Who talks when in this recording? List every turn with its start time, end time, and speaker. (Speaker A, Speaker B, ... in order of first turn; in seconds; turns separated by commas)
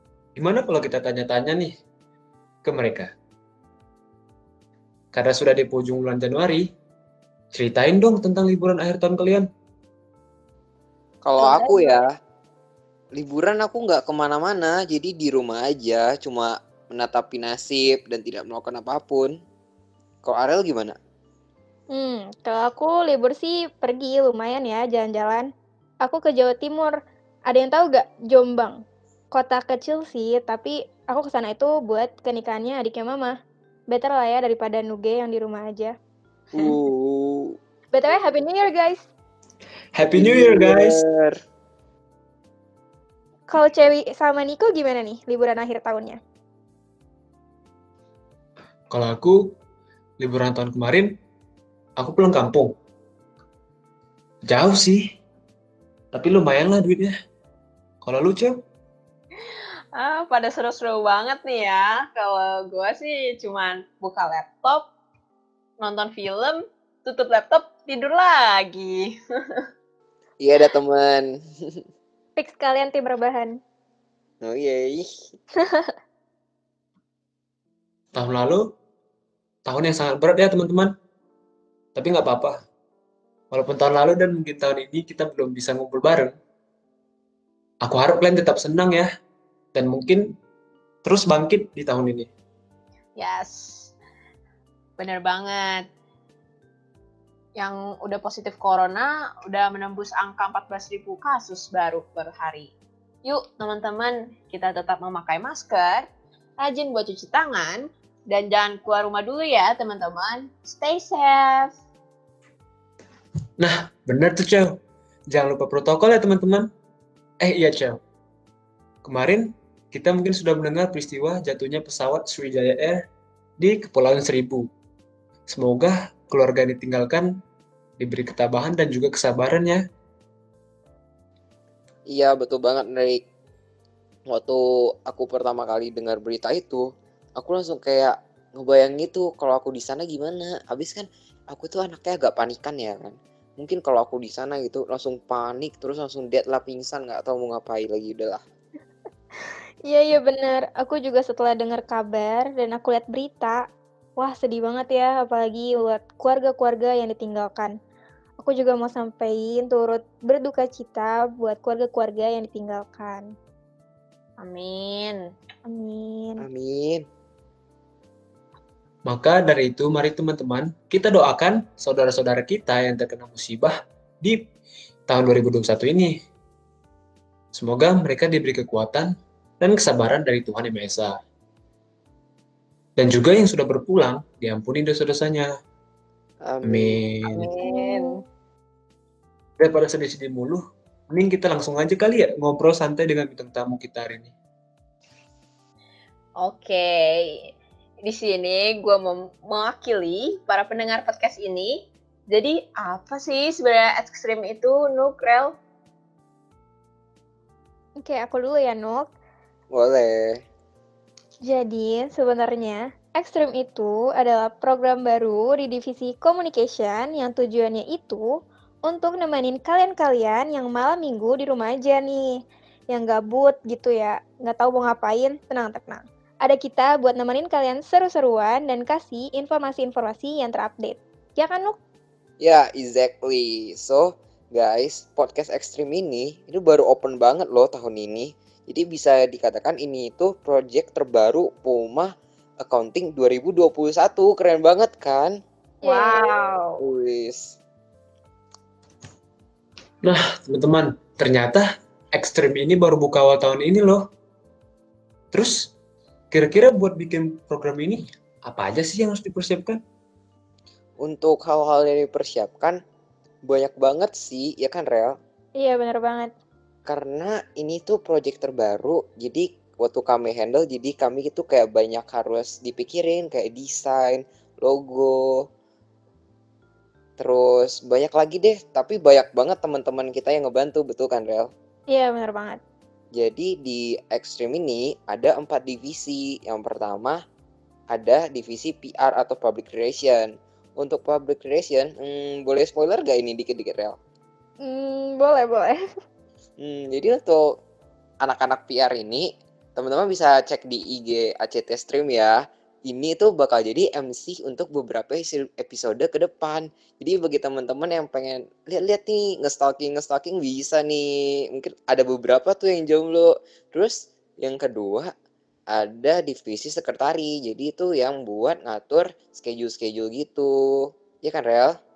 Speaker A: 0.4-1.7, Speaker A: 2.6-3.1, Speaker A: 5.1-6.7, Speaker A: 7.5-9.5, Speaker B: 11.2-12.1, Speaker C: 11.4-12.0, Speaker B: 13.2-19.3, Speaker B: 20.2-20.9, Speaker D: 21.9-25.5, Speaker D: 26.0-26.9, Speaker D: 27.5-28.8, Speaker D: 29.3-33.3, Speaker D: 33.9-35.9, Speaker B: 36.5-37.5, Speaker D: 37.9-39.1, Speaker A: 39.9-41.0, Speaker B: 40.2-41.3, Speaker D: 43.5-46.2, Speaker A: 48.9-49.4, Speaker A: 50.2-51.1, Speaker A: 52.0-52.7, Speaker A: 54.5-55.0, Speaker A: 56.1-57.1, Speaker A: 58.0-58.6, Speaker C: 60.0-64.9, Speaker C: 65.8-69.6, Speaker B: 70.4-71.8, Speaker D: 72.4-73.6, Speaker B: 74.4-75.1, Speaker A: 78.1-78.6, Speaker A: 79.7-80.9, Speaker A: 82.0-82.6, Speaker A: 83.5-86.3, Speaker A: 87.8-89.1, Speaker A: 89.7-90.2, Speaker A: 91.0-92.3, Speaker C: 93.2-93.9, Speaker C: 95.0-95.9, Speaker C: 97.6-102.7, Speaker C: 103.2-106.1, Speaker C: 106.6-111.7, Speaker A: 113.6-114.7, Speaker A: 115.3-116.7, Speaker A: 117.4-118.0, Speaker A: 119.0-123.0, Speaker A: 123.6-124.7, Speaker A: 125.5-127.3, Speaker A: 128.0-129.8, Speaker B: 132.1-133.2, Speaker B: 134.3-136.9, Speaker B: 137.4-148.4, Speaker D: 149.9-153.6, Speaker D: 154.2-157.7, Speaker D: 158.4-163.2, Speaker C: 164.4-165.2, Speaker D: 165.7-166.4, Speaker B: 166.4-167.0, Speaker A: 169.1-174.4, Speaker A: 175.1-176.2, Speaker A: 177.5-181.2, Speaker A: 183.0-185.5, Speaker B: 186.5-187.0, Speaker A: 186.6-187.5, Speaker C: 187.2-188.2, Speaker D: 187.6-188.2, Speaker A: 189.6-194.3, Speaker C: 196.4-197.2, Speaker C: 198.0-205.6, Speaker D: 208.0-209.1, Speaker B: 209.7-210.4, Speaker D: 211.4-218.2, Speaker D: 218.9-222.3, Speaker D: 222.9-231.7, Speaker B: 232.4-242.1, Speaker B: 242.6-245.3, Speaker C: 245.8-246.8, Speaker D: 245.8-246.4, Speaker B: 246.8-247.6, Speaker A: 250.0-254.0, Speaker A: 255.3-255.7, Speaker A: 256.3-259.8, Speaker B: 261.0-262.8, Speaker B: 263.5-265.1, Speaker D: 265.6-266.3, Speaker B: 266.9-275.2, Speaker B: 277.2-281.5, Speaker D: 281.9-282.6, Speaker B: 283.2-287.2, Speaker B: 287.9-290.3, Speaker B: 290.8-294.0, Speaker D: 294.6-295.8, Speaker B: 296.6-297.4, Speaker B: 298.2-302.3, Speaker B: 302.9-315.1, Speaker B: 315.7-320.5, Speaker B: 321.2-321.7